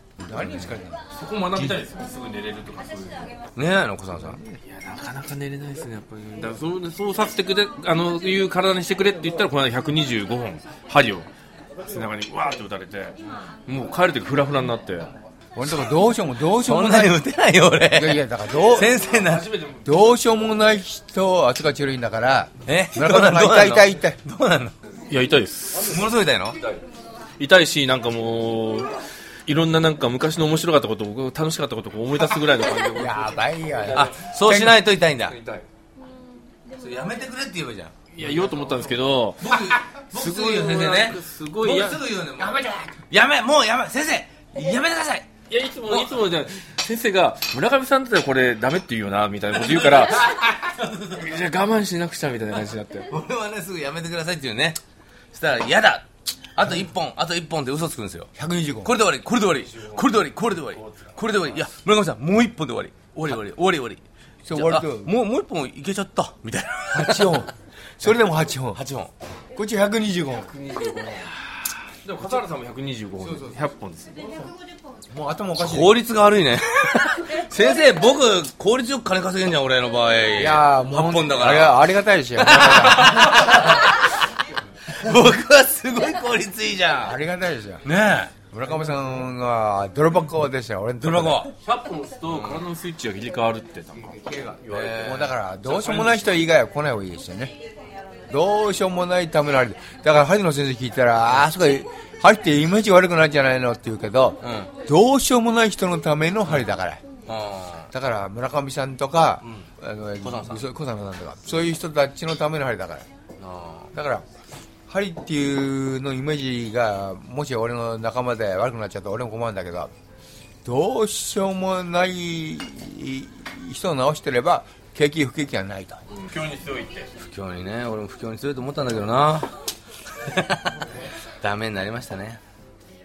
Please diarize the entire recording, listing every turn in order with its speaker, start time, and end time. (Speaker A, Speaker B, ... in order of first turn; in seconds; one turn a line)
Speaker A: 0.2-1.0
Speaker B: 0.3-0.7
Speaker C: 1.1-3.3
Speaker A: 1.5-1.8
Speaker B: 3.5-4.4
Speaker C: 4.7-11.3
Speaker C: 11.8-15.1
Speaker A: 15.6-17.2
Speaker B: 15.6-15.9
Speaker B: 16.5-19.5
Speaker A: 17.9-18.9
Speaker C: 19.0-19.9
Speaker A: 19.9-24.2
Speaker B: 22.7-24.7
Speaker C: 25.1-26.8
Speaker B: 25.8-26.6
Speaker C: 27.4-34.1
Speaker A: 32.9-34.8
Speaker B: 33.9-35.4
Speaker C: 35.3-35.7
Speaker B: 36.7-38.0
Speaker C: 38.1-42.0
Speaker B: 39.4-45.3
Speaker A: 42.4-42.9
Speaker C: 45.5-50.5
Speaker B: 45.9-46.2
Speaker B: 50.3-51.2
Speaker C: 51.1-53.1
Speaker B: 53.1-54.8
Speaker B: 55.3-58.3
Speaker A: 58.4-58.9
Speaker B: 58.8-67.5
Speaker C: 59.8-60.0
Speaker A: 64.5-65.1
Speaker A: 66.9-67.5
Speaker B: 68.0-69.1
Speaker A: 68.0-68.8
Speaker A: 69.5-70.5
Speaker C: 70.4-71.3
Speaker C: 72.0-74.2
Speaker A: 73.2-73.5
Speaker A: 75.1-76.0
Speaker B: 75.6-81.8
Speaker A: 80.4-83.5
Speaker B: 82.4-84.1
Speaker B: 84.9-87.2
Speaker A: 87.0-87.9
Speaker B: 87.8-88.3
Speaker A: 88.5-91.5
Speaker B: 91.0-91.5
Speaker C: 91.5-95.0
Speaker B: 92.3-92.7
Speaker B: 94.7-95.4
Speaker A: 94.8-97.5
Speaker C: 95.6-96.3
Speaker A: 98.3-107.0
Speaker B: 104.4-104.7
Speaker B: 107.3-107.9
Speaker A: 107.9-113.1
Speaker B: 109.4-109.7
Speaker B: 110.2-110.6
Speaker B: 113.4-113.9
Speaker A: 113.9-114.2
Speaker A: 114.9-119.9
Speaker A: 120.7-126.0
Speaker C: 126.1-127.1
Speaker B: 127.2-129.5
Speaker B: 130.2-130.8
Speaker B: 131.4-132.4